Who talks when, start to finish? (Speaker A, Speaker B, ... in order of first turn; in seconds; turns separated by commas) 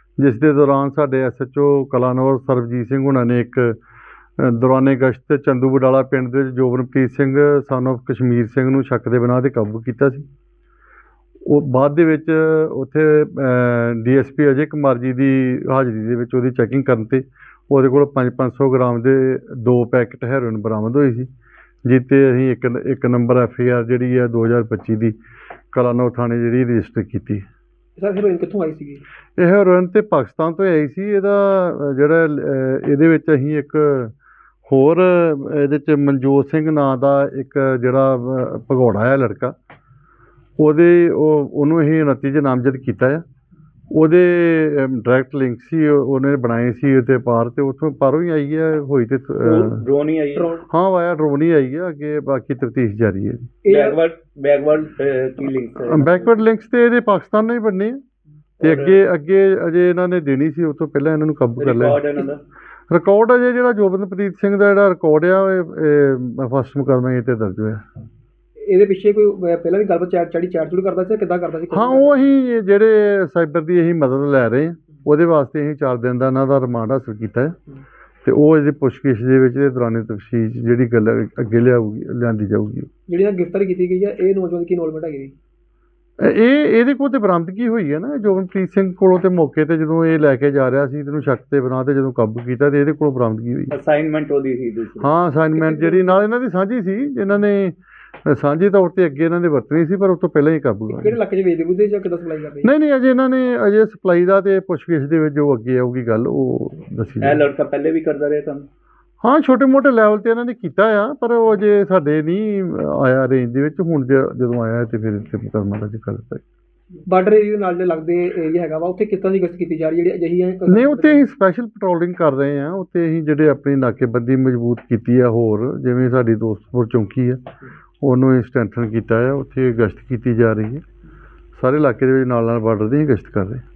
Speaker A: 0.2-3.8, Speaker A: 4.4-10.3, Speaker A: 11.5-21.3, Speaker A: 21.8-25.1, Speaker A: 25.7-27.4, Speaker B: 28.0-29.0, Speaker A: 29.4-34.1, Speaker A: 34.7-39.6, Speaker A: 40.6-43.2, Speaker A: 43.9-49.8, Speaker C: 49.4-50.5, Speaker B: 50.4-50.7, Speaker A: 50.7-53.5, Speaker B: 53.6-54.0, Speaker C: 53.7-56.4, Speaker A: 55.8-58.0, Speaker C: 58.6-59.0, Speaker A: 58.6-62.0, Speaker C: 61.6-62.4, Speaker A: 62.9-67.8, Speaker B: 68.7-72.3, Speaker A: 71.7-77.6, Speaker A: 78.2-82.9, Speaker B: 83.1-85.3, Speaker A: 86.2-93.7, Speaker C: 93.7-95.1, Speaker A: 95.0-101.2, Speaker B: 95.5-96.2, Speaker B: 100.9-102.7, Speaker A: 102.6-107.5, Speaker C: 107.2-108.7, Speaker A: 109.2-116.4, Speaker B: 117.1-121.3, Speaker A: 120.7-127.4, Speaker A: 128.0-130.8, Speaker A: 131.6-133.6